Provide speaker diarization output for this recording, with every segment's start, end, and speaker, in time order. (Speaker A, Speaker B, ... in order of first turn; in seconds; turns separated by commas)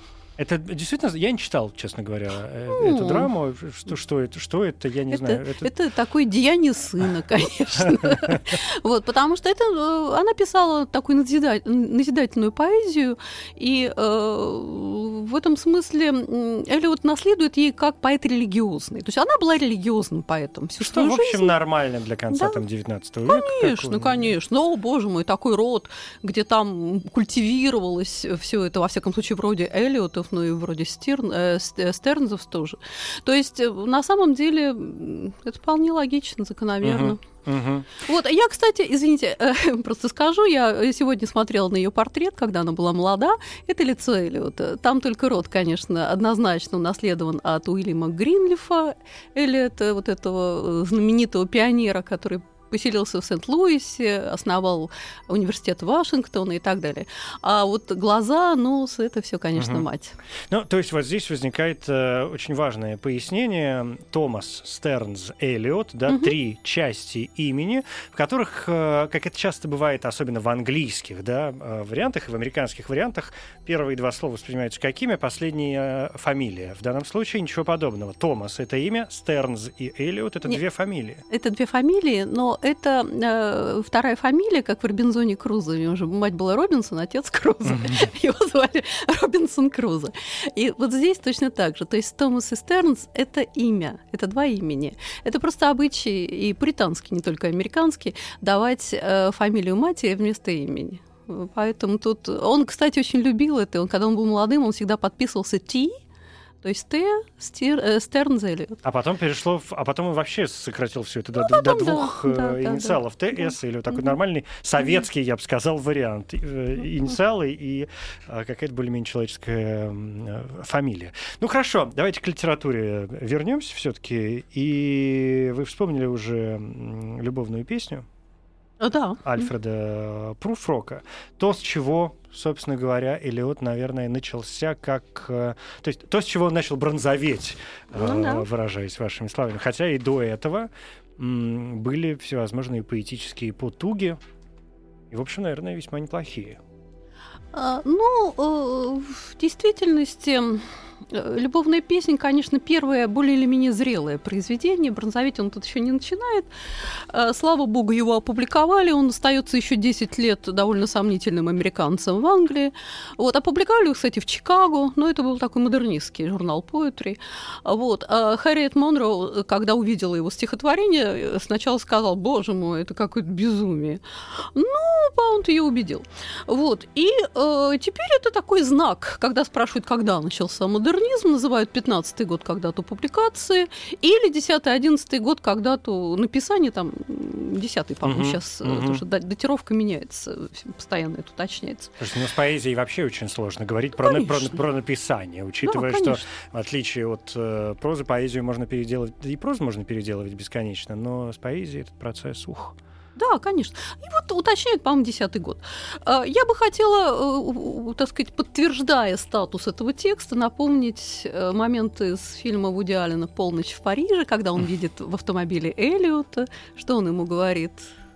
Speaker A: 0.4-5.7, Speaker B: 2.7-3.3, Speaker B: 5.1-21.5, Speaker A: 7.9-8.4, Speaker A: 20.8-24.3, Speaker B: 22.3-22.6, Speaker B: 23.3-37.2, Speaker A: 36.8-37.9, Speaker B: 38.0-60.2, Speaker A: 59.6-59.9, Speaker A: 60.5-81.2, Speaker B: 81.3-106.0, Speaker A: 87.7-88.1, Speaker B: 106.6-108.8, Speaker A: 108.8-128.1, Speaker B: 111.4-113.5, Speaker B: 128.8-129.5, Speaker A: 129.2-144.2, Speaker B: 137.9-138.5, Speaker A: 145.1-146.6, Speaker B: 147.5-156.5, Speaker B: 157.1-191.9, Speaker A: 188.0-189.0, Speaker A: 192.0-202.8, Speaker B: 194.0-194.6, Speaker B: 195.7-196.2, Speaker B: 203.2-217.9